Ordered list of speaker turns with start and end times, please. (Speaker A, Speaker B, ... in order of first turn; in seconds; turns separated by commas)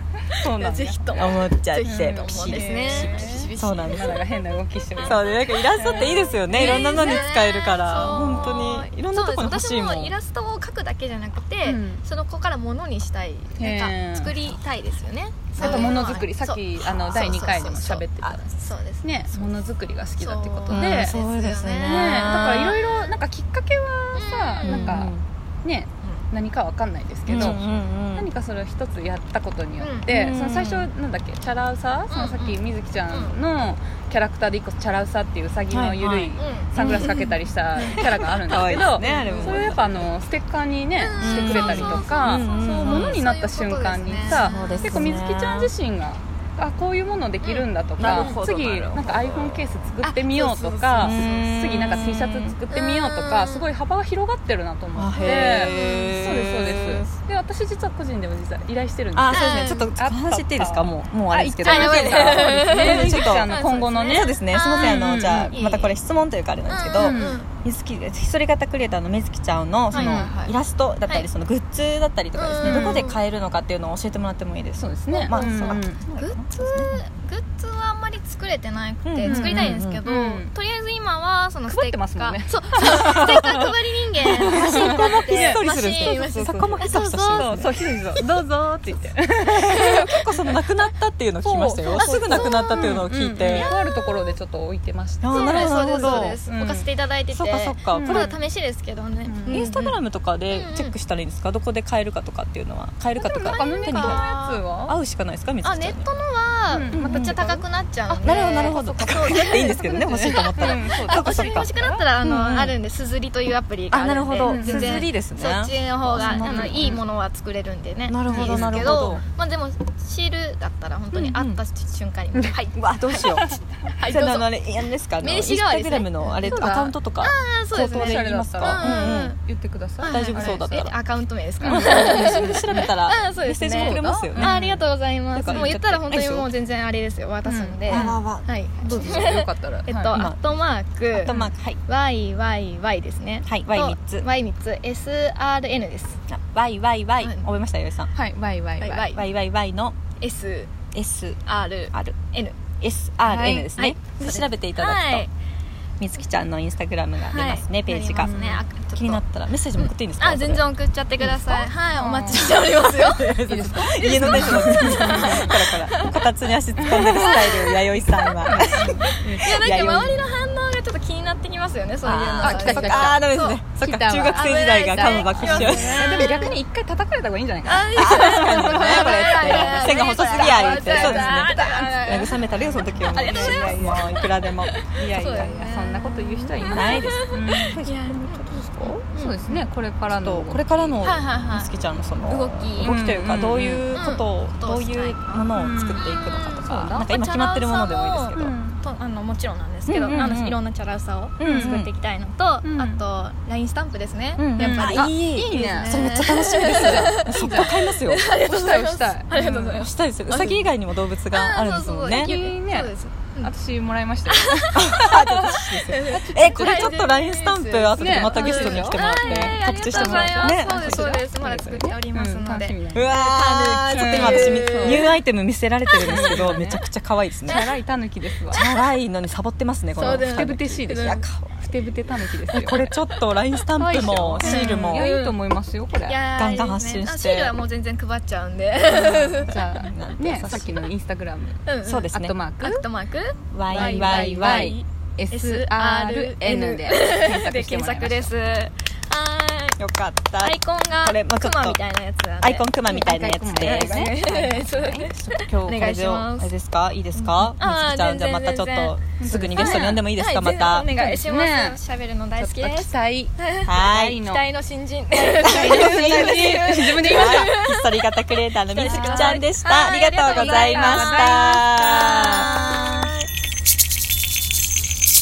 Speaker A: 0.4-5.2, Speaker B: 0.5-4.3, Speaker C: 1.1-4.2, Speaker B: 5.0-19.6, Speaker C: 5.0-10.2, Speaker A: 5.8-7.3, Speaker A: 8.0-8.7, Speaker A: 11.6-12.0, Speaker A: 13.6-14.4, Speaker C: 15.6-16.0, Speaker A: 15.6-21.2, Speaker B: 20.2-23.2, Speaker C: 20.7-22.8, Speaker A: 21.8-65.6, Speaker B: 24.1-25.0, Speaker C: 24.6-25.2, Speaker C: 27.3-28.3, Speaker B: 27.3-27.8, Speaker B: 29.8-30.1, Speaker C: 30.1-30.9, Speaker B: 32.1-32.6, Speaker B: 33.1-33.4, Speaker C: 35.7-40.0, Speaker B: 36.4-37.3, Speaker B: 39.0-39.7, Speaker B: 41.0-45.1, Speaker C: 41.2-43.2, Speaker C: 44.2-45.7, Speaker B: 47.4-48.4, Speaker C: 48.0-49.7, Speaker B: 50.0-51.7, Speaker C: 51.0-52.6, Speaker B: 52.7-53.7, Speaker C: 55.0-57.1, Speaker B: 55.2-56.3, Speaker C: 59.1-77.0, Speaker B: 59.3-59.9, Speaker B: 61.6-66.0, Speaker B: 66.7-67.5, Speaker A: 67.0-67.4, Speaker A: 69.9-70.4, Speaker B: 69.9-70.5, Speaker B: 72.3-73.2, Speaker A: 72.6-73.0, Speaker A: 74.8-76.0, Speaker B: 75.1-87.5, Speaker C: 79.0-80.0, Speaker A: 79.2-80.5, Speaker A: 81.7-89.9, Speaker C: 82.9-83.5, Speaker C: 84.3-87.8, Speaker C: 89.5-93.7, Speaker B: 89.6-90.0, Speaker A: 91.4-96.9, Speaker B: 91.9-94.3, Speaker C: 95.2-96.4, Speaker B: 95.3-101.0, Speaker C: 97.3-98.3, Speaker A: 97.9-98.4, Speaker A: 99.2-99.7, Speaker C: 99.5-104.3, Speaker A: 103.2-105.0, Speaker B: 103.5-104.7, Speaker C: 104.9-106.1, Speaker B: 105.6-123.4, Speaker A: 106.7-107.6, Speaker C: 106.9-107.5, Speaker C: 108.1-112.8, Speaker A: 108.3-108.7, Speaker A: 110.1-112.1, Speaker C: 113.9-117.0, Speaker A: 114.4-115.0, Speaker A: 116.2-117.0, Speaker C: 118.1-119.2, Speaker A: 118.3-119.3, Speaker C: 121.1-121.6, Speaker C: 122.8-123.5, Speaker B: 124.0-124.5, Speaker C: 124.1-129.4, Speaker B: 125.2-126.6, Speaker A: 126.4-127.0, Speaker B: 127.2-129.4, Speaker A: 128.0-130.9, Speaker B: 130.0-141.3, Speaker C: 130.1-131.0, Speaker A: 131.6-132.9, Speaker C: 131.6-134.6, Speaker A: 133.7-134.8, Speaker C: 135.3-136.5, Speaker A: 135.5-135.7, Speaker A: 137.4-138.2, Speaker C: 137.9-139.3, Speaker A: 138.8-140.2, Speaker C: 140.1-140.4, Speaker C: 141.1-141.8, Speaker A: 141.3-141.5, Speaker B: 141.9-146.2, Speaker C: 143.5-144.3, Speaker C: 146.3-148.1, Speaker B: 147.2-147.5, Speaker A: 148.1-149.1, Speaker B: 148.8-149.2, Speaker C: 148.9-150.0, Speaker B: 150.2-150.7, Speaker C: 150.9-151.4, Speaker B: 151.4-152.6, Speaker C: 152.8-155.3, Speaker A: 153.3-153.7, Speaker B: 153.7-155.3, Speaker C: 156.0-158.4, Speaker B: 157.3-159.2, Speaker A: 158.1-158.7, Speaker C: 158.9-160.7, Speaker B: 160.2-166.2, Speaker A: 161.2-162.7, Speaker C: 162.6-170.3, Speaker A: 163.4-165.6, Speaker A: 166.8-167.3, Speaker B: 166.9-173.6, Speaker A: 168.5-169.5, Speaker C: 172.0-176.4, Speaker A: 172.4-173.2, Speaker A: 173.8-187.8, Speaker B: 174.3-176.6, Speaker B: 177.7-182.4, Speaker C: 177.9-184.7, Speaker B: 183.1-189.6, Speaker C: 186.7-198.6, Speaker A: 189.2-191.1, Speaker B: 191.0-191.7, Speaker B: 192.2-192.9, Speaker A: 192.8-193.9, Speaker B: 193.9-209.9, Speaker A: 195.5-197.1, Speaker A: 198.3-198.8, Speaker C: 199.9-200.6, Speaker C: 201.4-201.9, Speaker A: 201.4-201.8, Speaker A: 202.6-203.0, Speaker C: 204.4-208.2, Speaker A: 204.6-210.7, Speaker C: 209.6-212.3, Speaker B: 211.3-213.5, Speaker A: 212.1-216.9, Speaker B: 214.3-215.2, Speaker C: 214.8-221.9, Speaker B: 215.9-225.2, Speaker A: 218.0-223.2, Speaker C: 222.9-227.6, Speaker A: 223.9-225.1, Speaker A: 226.0-226.8, Speaker A: 227.5-228.6, Speaker C: 228.5-231.5, Speaker B: 230.0-231.2, Speaker A: 230.2-233.0, Speaker C: 232.5-235.1, Speaker A: 233.8-236.2, Speaker B: 234.4-235.4, Speaker B: 236.0-239.6, Speaker C: 236.4-237.6, Speaker A: 238.9-242.8, Speaker C: 239.5-240.8, Speaker B: 241.7-249.8, Speaker C: 241.8-242.4, Speaker C: 243.5-244.8, Speaker A: 243.7-248.3, Speaker C: 249.8-251.8, Speaker B: 250.4-253.0, Speaker C: 252.4-260.9, Speaker A: 252.9-254.6, Speaker B: 253.6-256.5, Speaker B: 257.1-259.0, Speaker A: 259.2-260.1, Speaker B: 259.5-273.3, Speaker A: 260.9-261.8, Speaker A: 262.4-264.4, Speaker C: 263.6-264.2, Speaker A: 265.1-267.5, Speaker C: 265.4-272.5, Speaker A: 268.8-269.4, Speaker A: 270.2-272.9